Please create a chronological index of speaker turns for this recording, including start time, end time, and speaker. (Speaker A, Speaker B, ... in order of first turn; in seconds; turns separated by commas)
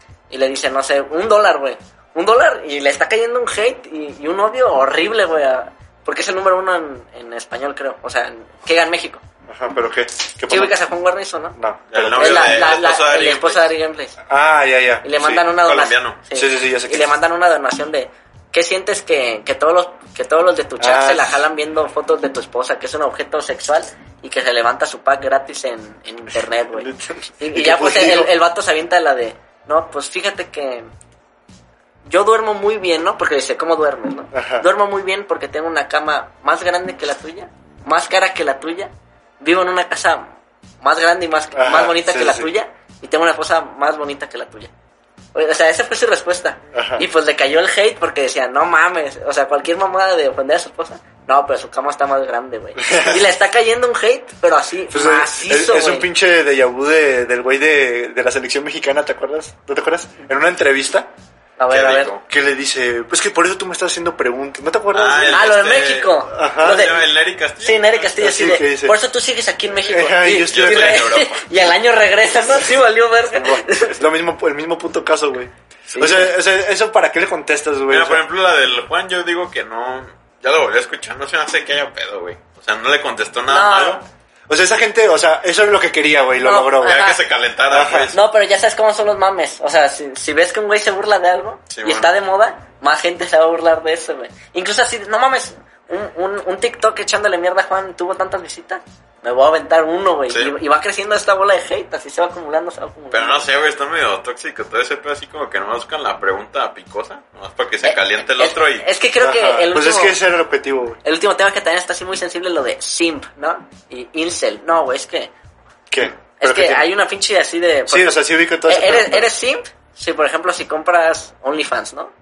Speaker A: 0.3-9.2, Speaker B: 9.5-10.8, Speaker A: 10.5-11.6, Speaker B: 11.6-12.8, Speaker C: 11.9-13.7, Speaker A: 12.2-14.2, Speaker B: 14.3-15.4, Speaker A: 15.0-30.9, Speaker C: 15.6-16.2, Speaker B: 16.3-17.1, Speaker B: 20.8-21.4, Speaker B: 26.7-28.3, Speaker A: 32.0-40.3, Speaker B: 34.3-34.7, Speaker A: 40.8-44.7, Speaker B: 41.5-42.5, Speaker A: 45.3-56.1, Speaker B: 46.7-47.0, Speaker B: 52.8-53.3, Speaker B: 54.9-61.1, Speaker A: 61.6-62.1, Speaker C: 61.7-62.2, Speaker B: 62.3-65.4, Speaker C: 64.9-68.1, Speaker A: 65.3-67.1, Speaker B: 66.3-66.9, Speaker A: 67.6-74.0, Speaker B: 68.2-69.0, Speaker B: 69.8-71.1, Speaker C: 70.4-71.5, Speaker B: 73.3-78.2, Speaker A: 75.9-76.3, Speaker C: 77.9-84.0, Speaker A: 83.5-84.0, Speaker B: 84.5-87.0, Speaker A: 86.4-87.2, Speaker C: 86.8-88.3, Speaker B: 87.7-88.1, Speaker A: 88.1-103.4, Speaker C: 91.7-92.1, Speaker C: 100.3-100.5, Speaker C: 103.1-108.9, Speaker A: 107.8-110.2, Speaker B: 109.2-111.0, Speaker A: 111.0-115.3, Speaker B: 115.9-116.9, Speaker A: 116.4-122.1, Speaker B: 117.9-119.3